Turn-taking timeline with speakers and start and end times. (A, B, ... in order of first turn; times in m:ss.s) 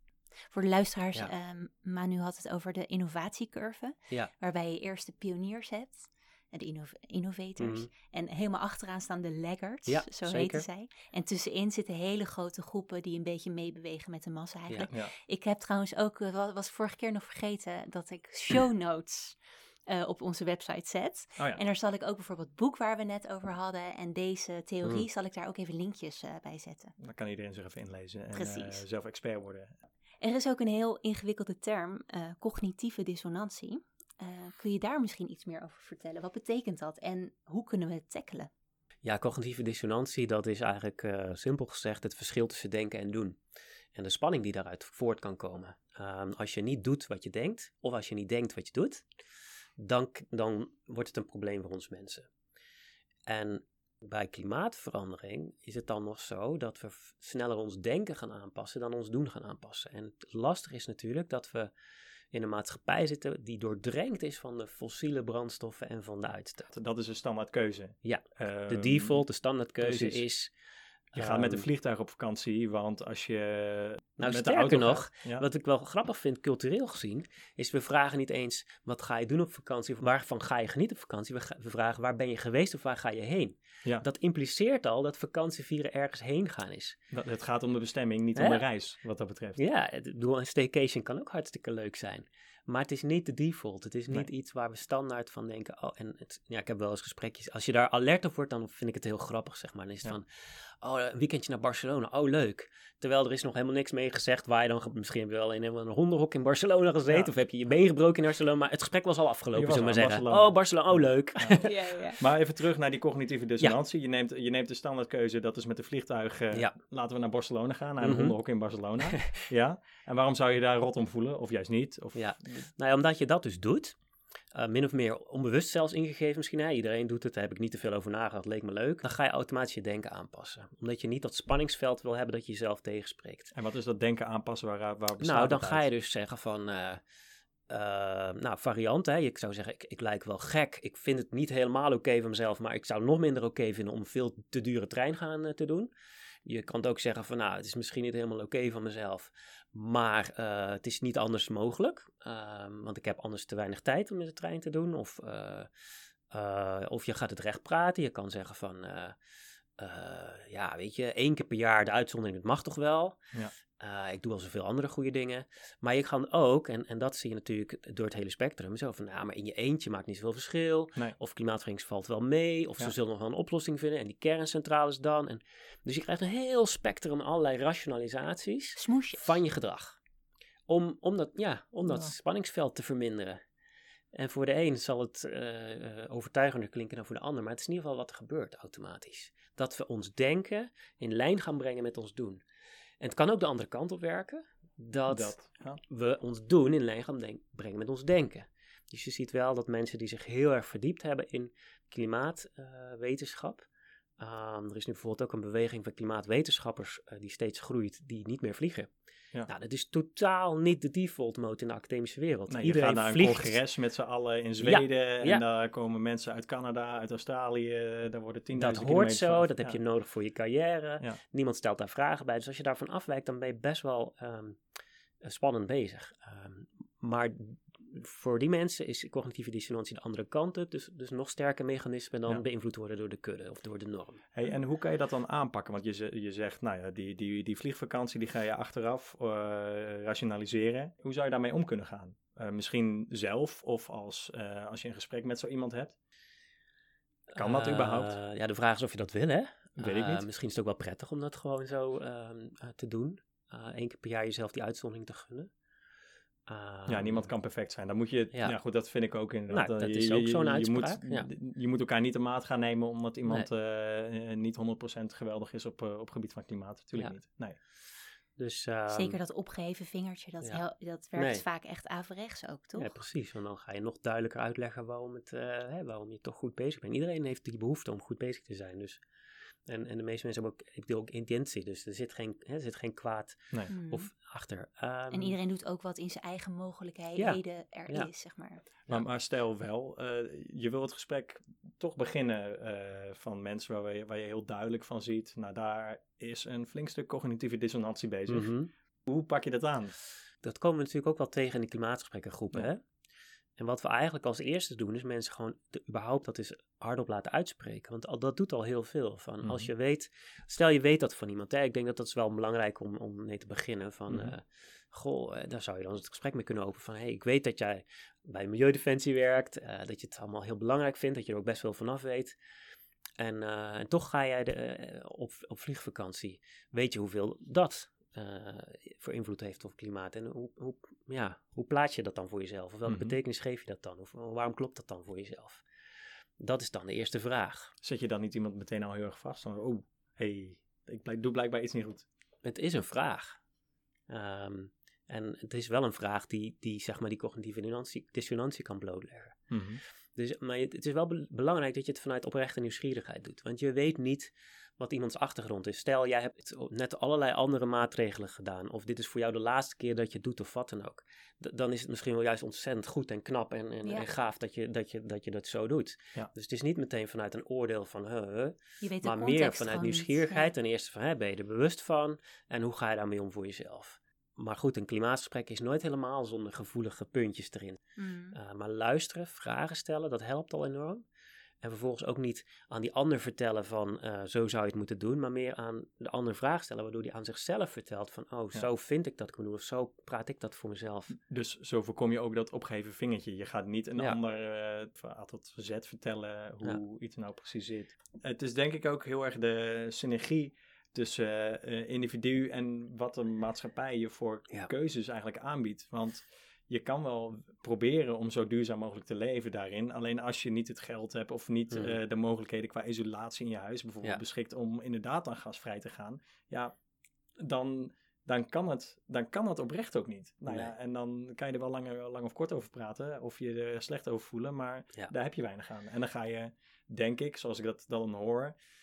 0:00.5-0:27.0 A
0:07.6-0:07.9 B
0:09.9-0:10.7 B
0:27.0-0:29.8 C
0:28.3-0:28.8 A
0:30.2-0:38.5 A
0:39.0-0:43.4 B
0:44.0-0:49.0 B
0:49.8-0:52.3 B
0:53.3-1:01.7 B
1:02.3-1:06.7 B
1:06.7-1:09.2 C
1:08.0-1:10.5 B
1:09.8-1:10.2 C
1:11.1-1:11.7 B
1:11.1-1:15.4 C
1:14.2-1:27.0 B
1:27.1-1:29.6 C
1:28.4-1:28.6 B
1:29.6-1:51.8 B
1:49.6-1:51.6 C
1:51.6-1:52.2 A
1:52.2-2:02.3 C
1:58.0-1:58.4 B
1:59.0-1:59.4 B
2:02.2-2:04.0 B
2:04.5-2:13.5 B
2:13.5-2:15.9 C
2:15.2-2:17.0 B
2:17.7-2:25.9 B
2:26.5-2:35.7 B
2:36.3-2:39.2 B
2:39.8-2:43.2 B
2:43.8-3:00.0 B
2:58.8-2:59.4 A
3:00.7-3:03.4 B
3:01.9-3:02.1 C
3:04.1-3:12.4 B
3:13.0-3:23.7 B
3:15.1-3:15.8 C
3:24.2-3:28.9 B
3:29.5-3:33.6 B
3:32.5-3:39.8 C
3:34.6-3:35.4 B
3:38.6-3:44.6 B
3:45.2-3:54.2 B
3:54.3-4:06.0 C
4:07.3-4:15.5 B
4:07.4-4:08.2 C
4:09.8-4:10.3 C
4:16.5-4:17.3 B
4:16.9-4:27.6 C
4:19.5-4:21.3 B
4:28.4-4:29.2 B
4:28.9-4:32.9 A
4:31.2-4:31.4 B
4:32.8-4:39.0 B
4:39.7-4:45.4 B
4:43.7-4:44.1 A
4:45.1-4:48.6 A
4:47.2-4:48.1 B
4:48.9-4:58.5 C
4:58.3-4:58.7 B
4:59.1-5:00.0 C
5:00.4-5:02.8 B
5:03.6-5:22.4 B
5:09.4-5:09.7 C
5:14.1-5:14.3 C
5:23.2-5:35.6 B
5:32.9-5:33.2 C
5:36.4-5:37.7 B
5:37.8-5:42.1 C
5:42.4-5:43.4 B
5:44.1-5:49.4 B
5:49.5-5:49.8 C
5:50.2-6:17.8 B
6:08.8-6:10.5 A
6:18.0-6:18.4 A
6:18.3-6:21.0 B
6:21.6-6:31.2 B
6:31.1-6:56.7 C
6:57.4-7:08.6 C